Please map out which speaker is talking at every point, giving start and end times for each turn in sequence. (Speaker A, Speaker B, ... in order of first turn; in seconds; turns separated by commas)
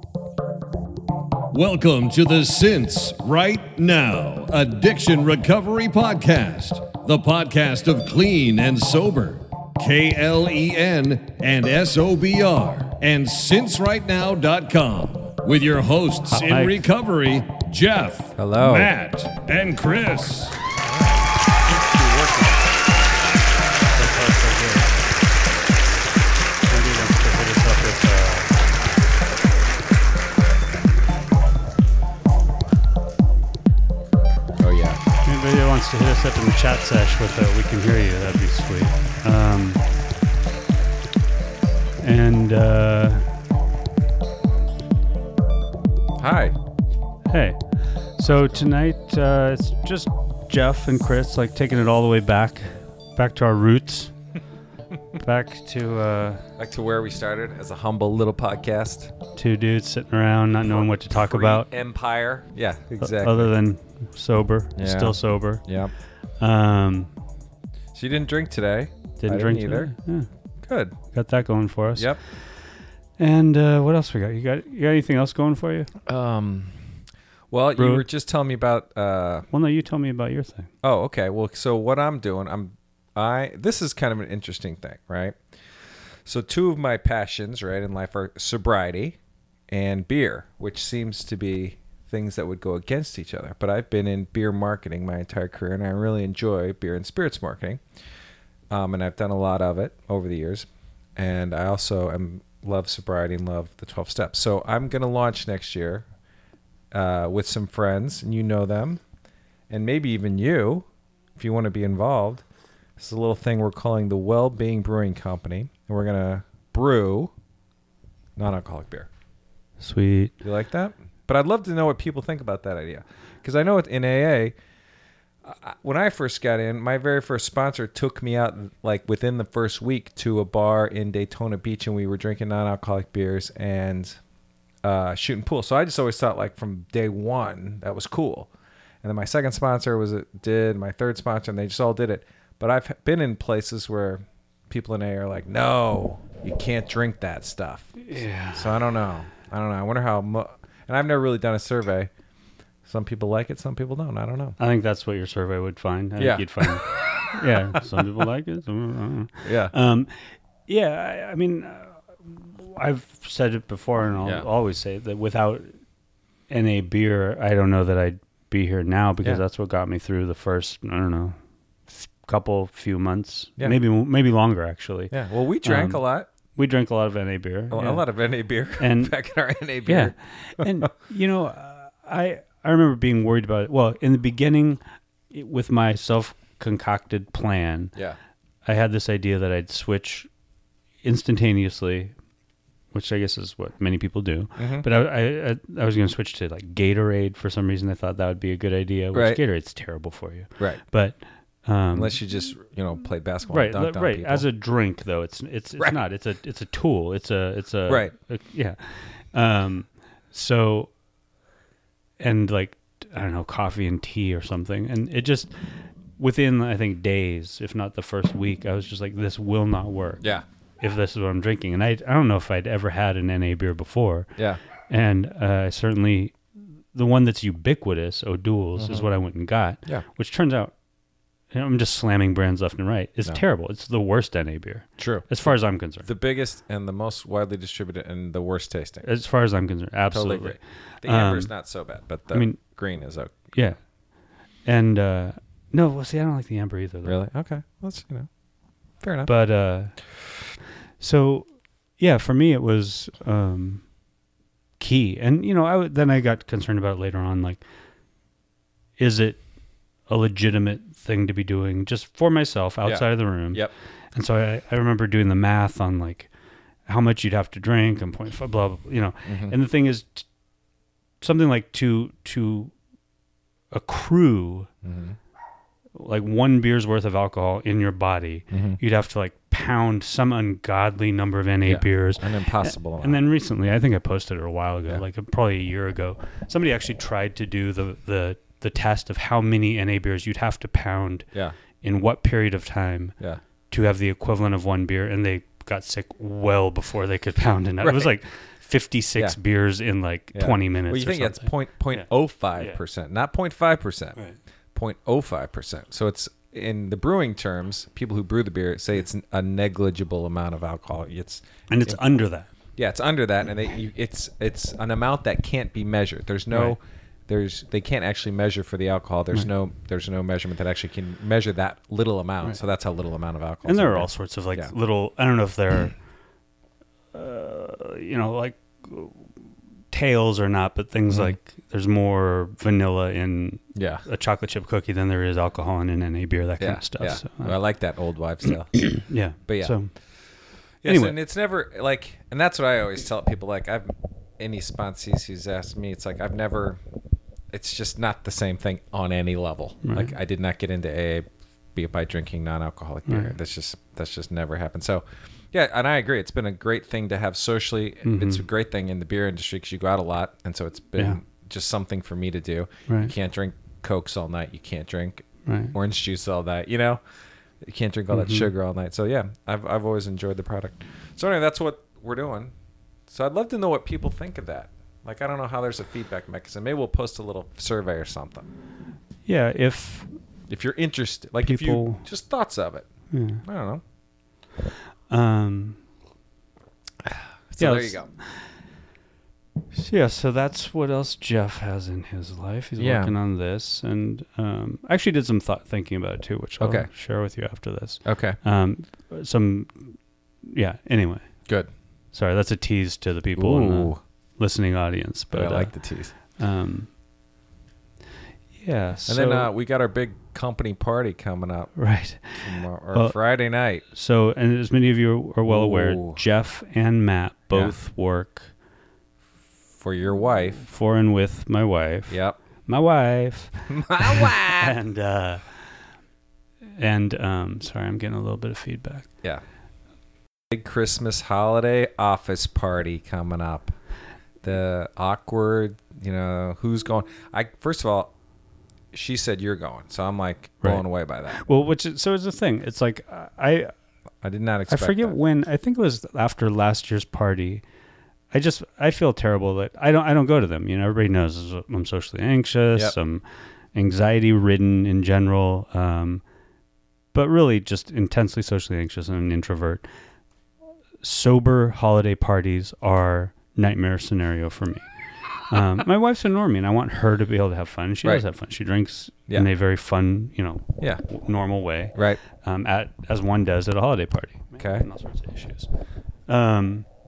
Speaker A: 1.5-20.6, Speaker B: 16.3-16.8, Speaker C: 18.4-18.9, Speaker C: 20.8-22.9, Speaker B: 23.9-24.9, Speaker B: 26.6-28.6, Speaker C: 34.6-35.0, Speaker B: 35.2-39.8, Speaker B: 42.0-43.3, Speaker C: 46.2-46.6, Speaker B: 47.3-54.1, Speaker B: 55.1-56.5, Speaker C: 56.6-59.1, Speaker B: 59.4-61.7, Speaker C: 60.7-63.5, Speaker B: 63.0-65.7, Speaker C: 64.8-65.9, Speaker B: 66.4-67.1, Speaker C: 68.0-69.9, Speaker B: 69.2-70.3, Speaker C: 70.6-71.0, Speaker B: 71.1-72.6, Speaker C: 72.0-72.2, Speaker B: 73.2-75.9, Speaker C: 76.1-77.0, Speaker C: 77.5-79.5, Speaker B: 77.8-78.0, Speaker B: 79.5-80.7, Speaker C: 80.8-85.4, Speaker C: 86.2-89.2, Speaker C: 89.7-97.8, Speaker C: 98.7-106.0, Speaker C: 106.9-109.0, Speaker C: 109.7-110.9, Speaker C: 111.4-112.4, Speaker C: 113.0-117.3, Speaker C: 118.4-119.1, Speaker B: 119.8-120.3, Speaker C: 120.4-124.5, Speaker C: 125.5-134.2, Speaker C: 134.8-138.5, Speaker C: 139.0-152.1, Speaker B: 148.0-148.9, Speaker C: 152.9-154.6, Speaker B: 154.6-165.7, Speaker C: 156.2-157.4, Speaker C: 159.4-159.7, Speaker B: 166.5-171.4, Speaker B: 171.9-176.0, Speaker C: 175.1-176.3, Speaker B: 176.6-178.1, Speaker C: 177.7-180.9, Speaker B: 178.8-179.1, Speaker B: 179.8-187.9, Speaker B: 188.7-190.3, Speaker B: 191.0-192.1, Speaker B: 192.9-202.2, Speaker C: 194.6-194.9, Speaker C: 199.1-199.4, Speaker C: 201.9-204.5, Speaker B: 203.5-210.9, Speaker C: 207.9-208.1, Speaker B: 212.2-215.5, Speaker B: 216.2-220.2, Speaker B: 220.8-224.3, Speaker B: 224.9-226.4, Speaker B: 226.9-230.7, Speaker C: 228.8-229.1, Speaker B: 231.5-236.1, Speaker C: 235.0-239.1, Speaker B: 239.0-241.5, Speaker C: 240.1-243.5, Speaker B: 242.3-242.6, Speaker B: 243.5-243.8, Speaker B: 244.7-247.2, Speaker C: 247.1-248.3, Speaker C: 249.0-249.3, Speaker B: 249.3-250.0, Speaker B: 251.0-253.9, Speaker B: 254.8-257.6, Speaker B: 259.0-259.4, Speaker B: 260.1-266.3, Speaker C: 262.9-263.7, Speaker B: 266.9-270.3, Speaker C: 269.3-269.6, Speaker B: 271.2-272.7, Speaker B: 273.7-274.7, Speaker C: 274.8-275.2, Speaker B: 275.9-291.3, Speaker C: 278.5-278.8, Speaker C: 281.7-283.2, Speaker B: 291.8-293.1, Speaker B: 293.7-302.8, Speaker C: 297.8-298.1, Speaker C: 300.3-304.2, Speaker C: 304.7-312.0, Speaker B: 311.7-312.5, Speaker C: 312.8-324.7, Speaker B: 316.5-316.8, Speaker B: 323.7-326.0, Speaker B: 327.1-329.3, Speaker B: 329.9-337.6, Speaker C: 331.1-331.4, Speaker C: 333.8-334.0, Speaker C: 336.6-339.8, Speaker B: 338.8-339.9, Speaker C: 340.8-346.8, Speaker B: 340.8-341.2, Speaker C: 347.5-367.0, Speaker B: 349.8-350.1, Speaker B: 353.1-353.3, Speaker B: 358.0-358.4, Speaker B: 362.9-363.1, Speaker B: 365.5-365.7, Speaker C: 367.6-372.5, Speaker B: 368.1-368.5, Speaker C: 373.1-378.5, Speaker B: 379.3-380.1, Speaker C: 380.5-382.9, Speaker B: 381.4-382.1, Speaker B: 383.1-383.4, Speaker C: 383.4-383.8, Speaker B: 385.1-385.8, Speaker C: 387.1-388.1, Speaker B: 387.6-388.5, Speaker B: 389.7-400.0, Speaker C: 392.8-393.1, Speaker C: 396.6-396.9, Speaker C: 398.1-398.4, Speaker B: 400.5-401.3, Speaker B: 402.1-406.9, Speaker C: 403.4-404.0, Speaker C: 405.3-406.1, Speaker B: 408.6-409.5, Speaker C: 409.1-411.7, Speaker B: 411.8-413.2, Speaker C: 412.4-413.8, Speaker B: 413.9-418.5, Speaker C: 415.5-416.2, Speaker C: 419.8-420.7, Speaker B: 420.7-425.7, Speaker C: 422.1-422.4, Speaker C: 423.7-424.7, Speaker B: 426.8-429.1, Speaker C: 430.5-433.7, Speaker C: 434.4-438.1, Speaker C: 438.9-441.4, Speaker B: 440.6-443.7, Speaker C: 444.2-445.2, Speaker B: 444.7-447.6, Speaker B: 448.3-456.2, Speaker B: 457.1-459.9, Speaker B: 461.0-464.9, Speaker B: 465.4-475.7, Speaker C: 471.9-472.2, Speaker C: 474.6-474.9, Speaker B: 476.3-476.9